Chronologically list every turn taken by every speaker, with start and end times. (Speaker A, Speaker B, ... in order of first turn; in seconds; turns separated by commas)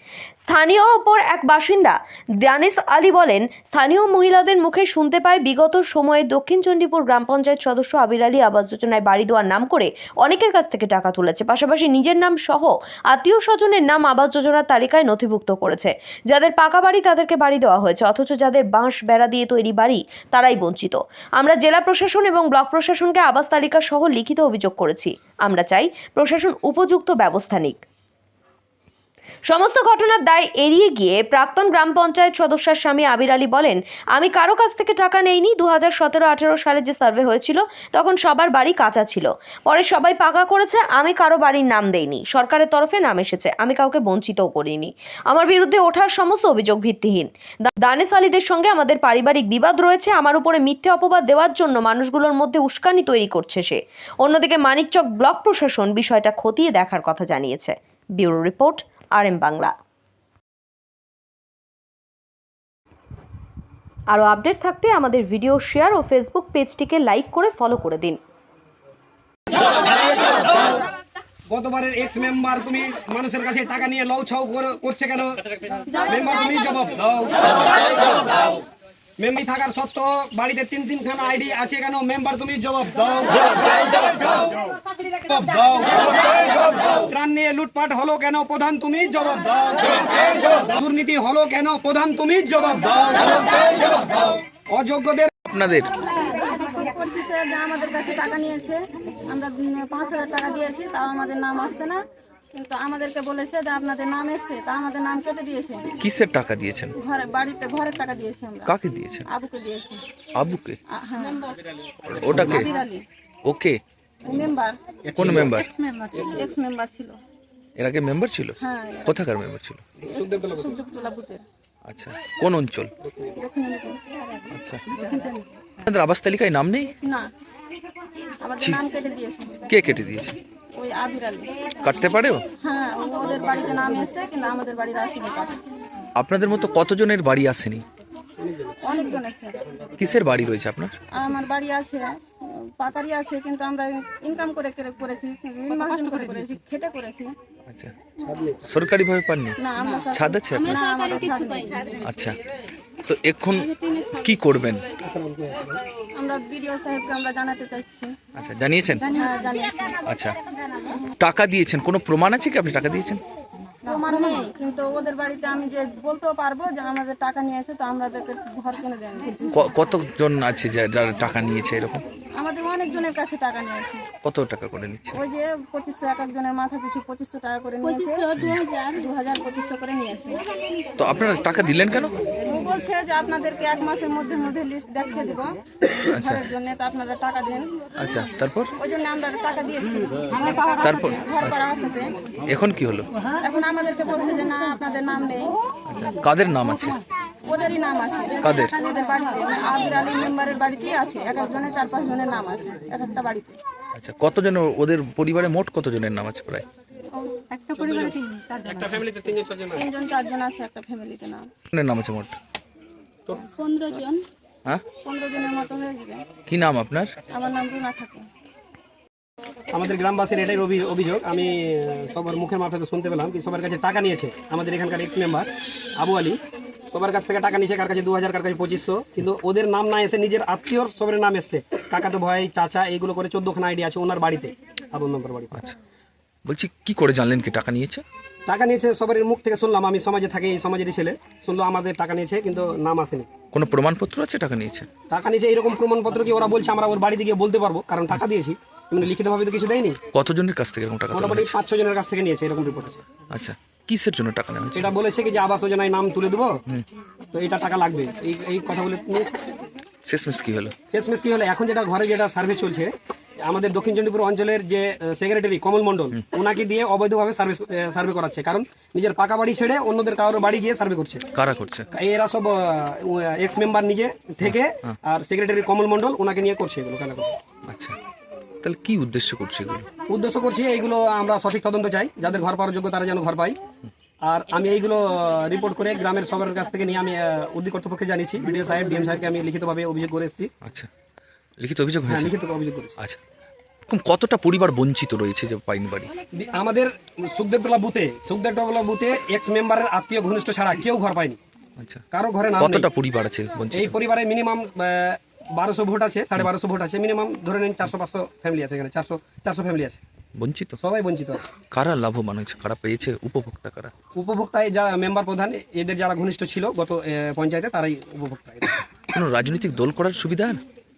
Speaker A: 0.5-27.8, Speaker A: 29.5-59.7, Speaker A: 64.1-68.2, Speaker B: 70.1-70.8, Speaker B: 71.5-78.4, Speaker B: 79.2-84.4, Speaker B: 85.3-95.3, Speaker C: 95.5-95.9, Speaker D: 96.4-102.0, Speaker D: 102.5-106.0, Speaker C: 106.0-107.0, Speaker D: 107.0-108.7, Speaker C: 108.7-109.3, Speaker D: 109.3-110.0, Speaker C: 110.3-110.8, Speaker D: 110.9-111.5, Speaker C: 112.0-112.7, Speaker D: 112.3-113.1, Speaker C: 113.5-113.8, Speaker D: 114.2-114.8, Speaker B: 115.1-115.6, Speaker C: 115.2-115.7, Speaker D: 116.0-117.2, Speaker C: 117.8-118.5, Speaker D: 118.6-119.2, Speaker C: 119.1-119.8, Speaker B: 120.0-120.8, Speaker D: 120.5-121.4, Speaker C: 121.8-122.9, Speaker D: 123.4-124.0, Speaker C: 124.5-124.8, Speaker D: 124.9-125.5, Speaker C: 125.9-126.9, Speaker D: 127.0-127.3, Speaker D: 128.4-129.6, Speaker C: 129.7-130.4, Speaker D: 130.7-131.5, Speaker C: 131.8-132.4, Speaker D: 132.6-135.6, Speaker C: 136.2-137.8, Speaker D: 138.8-139.8, Speaker C: 140.0-140.9, Speaker D: 141.1-147.3, Speaker C: 147.7-147.9, Speaker B: 148.3-148.7, Speaker C: 148.7-149.6, Speaker D: 149.6-152.0, Speaker C: 150.1-150.8, Speaker C: 152.1-152.4, Speaker C: 153.1-154.9, Speaker B: 155.0-155.8, Speaker D: 156.1-158.1, Speaker C: 158.4-159.1, Speaker D: 159.1-160.0, Speaker C: 160.1-160.4, Speaker C: 161.2-163.2, Speaker D: 163.8-169.6, Speaker C: 169.5-172.0, Speaker D: 172.3-174.1, Speaker C: 174.2-175.2, Speaker D: 175.1-180.5, Speaker C: 178.4-178.6, Speaker C: 181.0-182.2, Speaker D: 182.4-187.7, Speaker C: 186.1-186.5, Speaker C: 188.0-188.7, Speaker D: 188.8-192.2, Speaker C: 190.8-191.6, Speaker C: 192.5-193.1, Speaker D: 193.4-195.6, Speaker C: 195.9-197.0, Speaker D: 197.4-203.6, Speaker C: 198.4-198.8, Speaker C: 203.9-206.7, Speaker D: 207.1-207.6, Speaker B: 207.7-209.9, Speaker D: 209.7-211.5, Speaker C: 211.7-212.4, Speaker D: 213.5-214.2, Speaker D: 215.0-216.3, Speaker C: 216.5-217.2, Speaker D: 217.3-218.3, Speaker B: 219.7-235.7, Speaker C: 236.5-238.0, Speaker B: 238.5-243.3, Speaker C: 243.5-244.9, Speaker B: 245.1-250.0, Speaker C: 250.1-251.6, Speaker B: 251.1-253.1, Speaker C: 253.3-254.9, Speaker B: 254.7-256.6, Speaker B: 257.3-259.4, Speaker C: 260.1-260.8, Speaker B: 260.9-271.2, Speaker C: 271.3-271.9, Speaker B: 271.9-277.3, Speaker C: 274.4-274.9, Speaker C: 277.7-277.9, Speaker C: 278.6-279.9, Speaker B: 280.1-283.6, Speaker B: 284.2-290.5, Speaker C: 290.6-290.9, Speaker C: 291.6-292.3, Speaker B: 292.1-293.0, Speaker C: 293.9-296.1, Speaker B: 296.3-301.4, Speaker C: 301.8-302.0, Speaker B: 302.1-302.9, Speaker C: 302.6-303.9, Speaker B: 303.7-310.0, Speaker C: 310.4-310.8, Speaker B: 310.8-311.4, Speaker C: 311.6-313.9, Speaker B: 314.1-318.8, Speaker C: 319.1-320.6